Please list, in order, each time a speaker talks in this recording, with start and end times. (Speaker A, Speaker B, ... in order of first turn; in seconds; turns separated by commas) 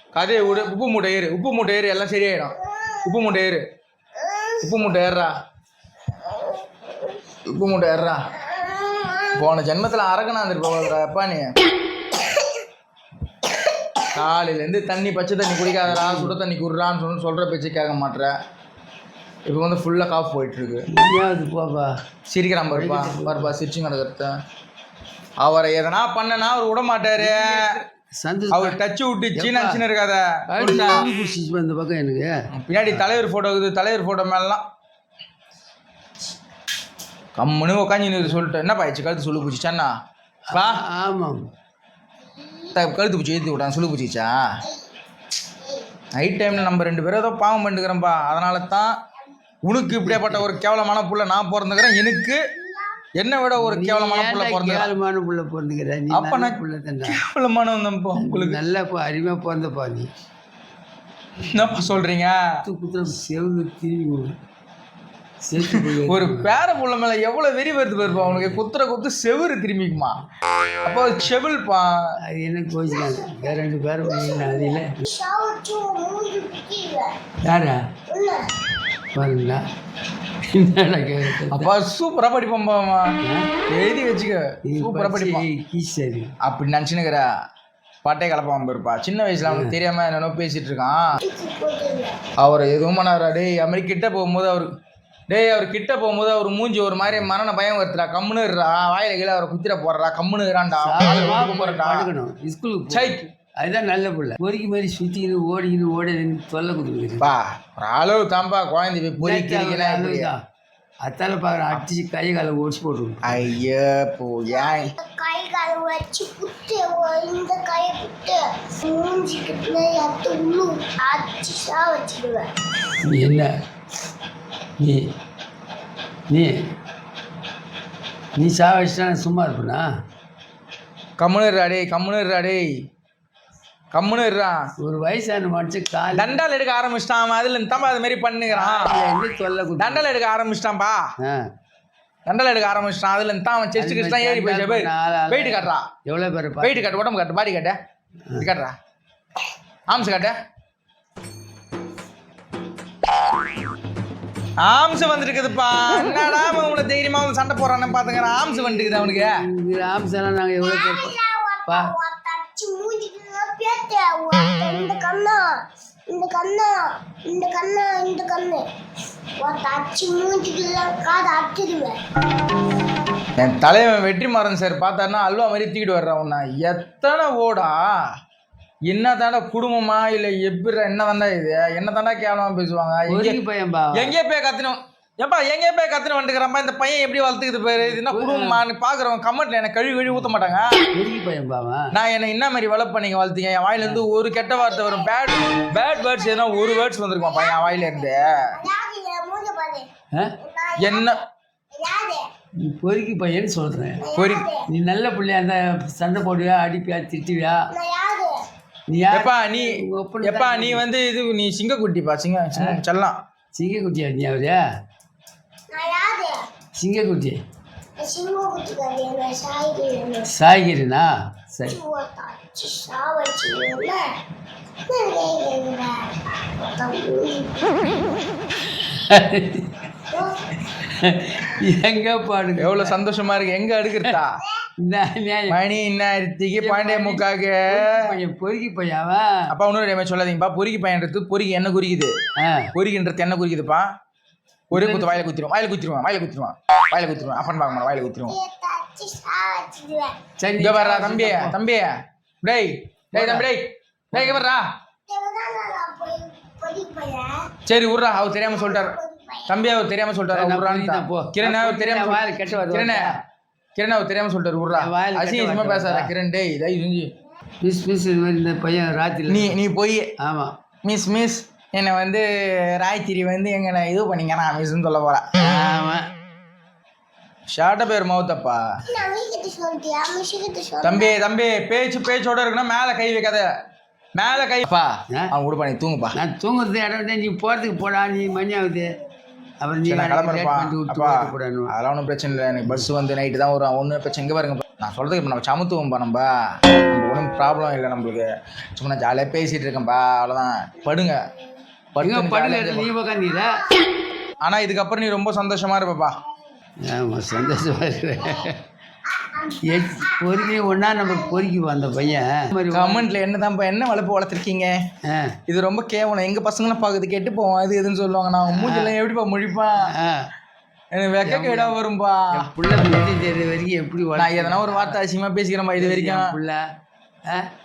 Speaker A: 0.1-3.6, Speaker B: 2.7-3.0, Speaker B: 4.2-4.7, Speaker A: 4.6-5.3, Speaker B: 6.3-7.2, Speaker A: 7.5-8.2, Speaker B: 8.5-9.5, Speaker A: 9.3-11.5, Speaker A: 14.1-18.4, Speaker C: 15.9-16.4, Speaker A: 19.5-20.8, Speaker C: 20.9-21.9, Speaker A: 22.3-24.3, Speaker C: 22.7-23.5, Speaker A: 25.4-27.7, Speaker C: 27.2-28.8, Speaker A: 28.5-31.1, Speaker C: 29.3-29.8, Speaker C: 30.5-32.4, Speaker A: 32.6-34.6, Speaker A: 37.4-39.9, Speaker A: 40.5-40.8, Speaker C: 40.5-41.5, Speaker B: 42.3-42.8, Speaker A: 42.8-44.3, Speaker B: 44.6-44.9, Speaker A: 46.2-48.9, Speaker A: 49.6-52.4, Speaker C: 49.9-50.4, Speaker B: 52.5-53.0, Speaker A: 53.2-54.9, Speaker C: 53.6-57.2, Speaker A: 56.1-58.6, Speaker C: 58.1-60.1, Speaker A: 61.4-62.4, Speaker C: 62.6-64.3, Speaker C: 65.5-66.5, Speaker A: 65.7-70.2, Speaker C: 68.0-68.6, Speaker A: 70.8-72.0, Speaker C: 72.3-75.0, Speaker B: 72.9-77.1, Speaker C: 77.4-77.8, Speaker B: 78.1-78.5, Speaker C: 79.1-79.6, Speaker C: 80.4-81.7, Speaker A: 81.5-83.2, Speaker C: 83.2-83.5, Speaker A: 83.7-85.4, Speaker C: 84.7-86.3, Speaker A: 86.4-87.3, Speaker A: 88.0-91.2, Speaker C: 89.5-89.8, Speaker B: 91.2-92.2, Speaker A: 92.4-94.7, Speaker A: 95.3-102.1, Speaker C: 100.8-107.3, Speaker A: 102.9-103.3, Speaker A: 107.2-110.3, Speaker C: 109.2-110.4, Speaker C: 111.0-113.5, Speaker A: 113.2-114.9, Speaker B: 114.5-122.5, Speaker C: 123.0-123.5, Speaker C: 124.8-125.1, Speaker C: 126.3-126.7, Speaker C: 128.4-129.9, Speaker A: 131.2-132.7, Speaker A: 133.9-134.6, Speaker C: 134.8-136.4, Speaker A: 136.1-139.0, Speaker C: 138.5-140.1, Speaker A: 139.8-141.1, Speaker A: 142.3-145.9, Speaker C: 143.8-147.0, Speaker A: 146.6-147.8, Speaker A: 148.4-148.8, Speaker A: 149.9-150.4, Speaker A: 154.6-159.4, Speaker C: 158.3-161.1, Speaker B: 160.6-165.6, Speaker C: 161.7-161.9, Speaker B: 166.1-168.7, Speaker B: 169.4-172.0, Speaker A: 173.4-177.8, Speaker A: 178.9-183.4, Speaker C: 183.1-184.2, Speaker A: 183.9-190.8, Speaker C: 187.8-188.6, Speaker C: 190.9-191.9, Speaker A: 191.9-198.5, Speaker B: 194.5-199.9, Speaker B: 200.4-201.2, Speaker A: 200.8-201.2, Speaker B: 201.8-202.3, Speaker C: 202.7-204.0, Speaker B: 204.0-204.7, Speaker A: 204.2-204.5, Speaker C: 204.7-207.6, Speaker B: 207.7-208.4, Speaker C: 208.9-210.8, Speaker A: 209.1-213.2, Speaker C: 213.6-214.6, Speaker B: 215.7-216.4, Speaker C: 216.8-217.4, Speaker B: 218.0-220.3, Speaker C: 220.3-221.8, Speaker B: 221.7-224.1, Speaker B: 224.8-228.1, Speaker C: 228.8-229.7, Speaker B: 230.1-230.4, Speaker C: 230.7-233.0, Speaker A: 232.6-234.4, Speaker C: 234.8-235.6, Speaker A: 235.5-238.0, Speaker C: 236.6-239.4, Speaker A: 239.5-242.1, Speaker C: 242.4-242.7, Speaker A: 242.7-243.9, Speaker C: 244.7-245.3, Speaker A: 244.7-248.3, Speaker B: 247.3-250.2, Speaker C: 250.4-251.6, Speaker A: 250.6-254.7, Speaker C: 253.1-253.5, Speaker C: 254.1-254.4, Speaker B: 255.1-257.5, Speaker A: 257.7-258.9, Speaker B: 258.4-259.8, Speaker A: 259.5-263.1, Speaker C: 260.3-263.2, Speaker A: 263.8-267.1, Speaker C: 264.7-266.1, Speaker C: 267.6-269.6, Speaker A: 269.3-270.1, Speaker C: 270.2-270.5, Speaker A: 270.9-275.3, Speaker C: 275.4-276.1, Speaker A: 277.5-278.6, Speaker B: 278.9-281.2, Speaker A: 280.8-283.5, Speaker A: 284.1-286.1, Speaker C: 286.1-288.9, Speaker C: 289.6-291.7, Speaker A: 289.8-301.2, Speaker A: 301.9-302.9, Speaker C: 302.0-303.6, Speaker B: 303.4-303.8, Speaker A: 304.4-306.2, Speaker C: 306.8-308.6, Speaker B: 308.2-308.5, Speaker B: 309.1-312.1, Speaker C: 309.7-313.1, Speaker A: 312.7-314.8, Speaker C: 315.1-315.4, Speaker A: 315.5-319.8, Speaker C: 318.5-318.9, Speaker C: 319.9-320.3, Speaker A: 320.9-322.5, Speaker C: 321.2-321.8, Speaker C: 322.3-325.0, Speaker A: 324.2-326.4, Speaker C: 325.8-326.6